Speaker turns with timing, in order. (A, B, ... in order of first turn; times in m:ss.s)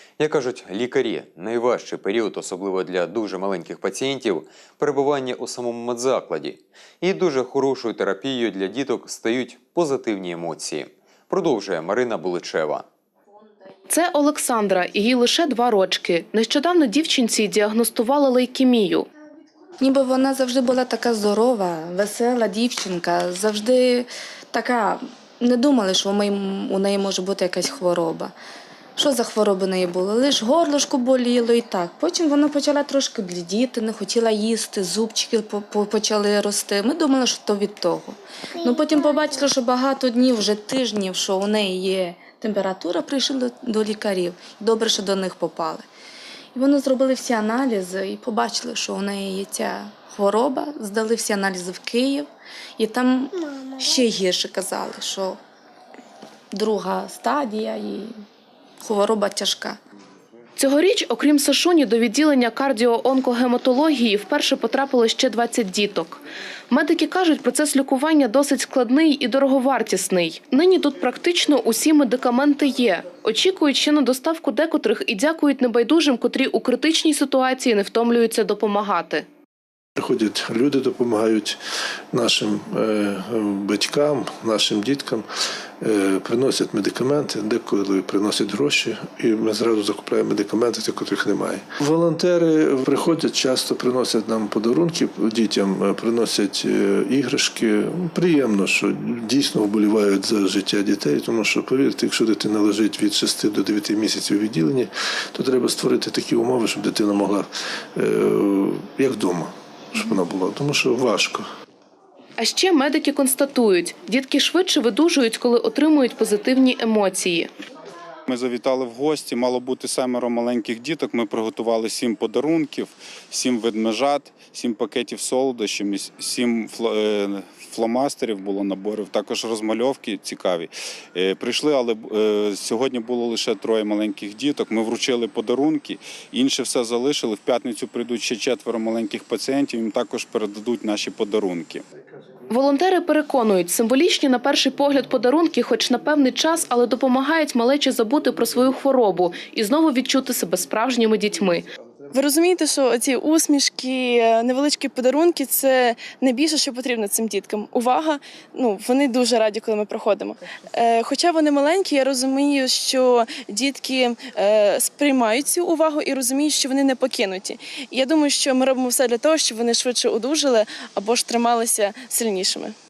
0:00.2-0:12.9 A
0:13.9-0:19.1 B
0:19.8-0:28.3 C
0:29.0-0:45.8 C
0:46.5-0:55.4 C
0:56.5-0:58.1 C
0:58.8-0:59.8 C
1:00.6-1:19.3 B
1:20.0-1:21.6 D
1:22.1-1:25.3 D
1:25.8-1:51.5 D
1:52.4-1:57.5 B
1:58.3-2:21.8 E
2:22.5-2:31.6 B
2:32.2-2:52.7 F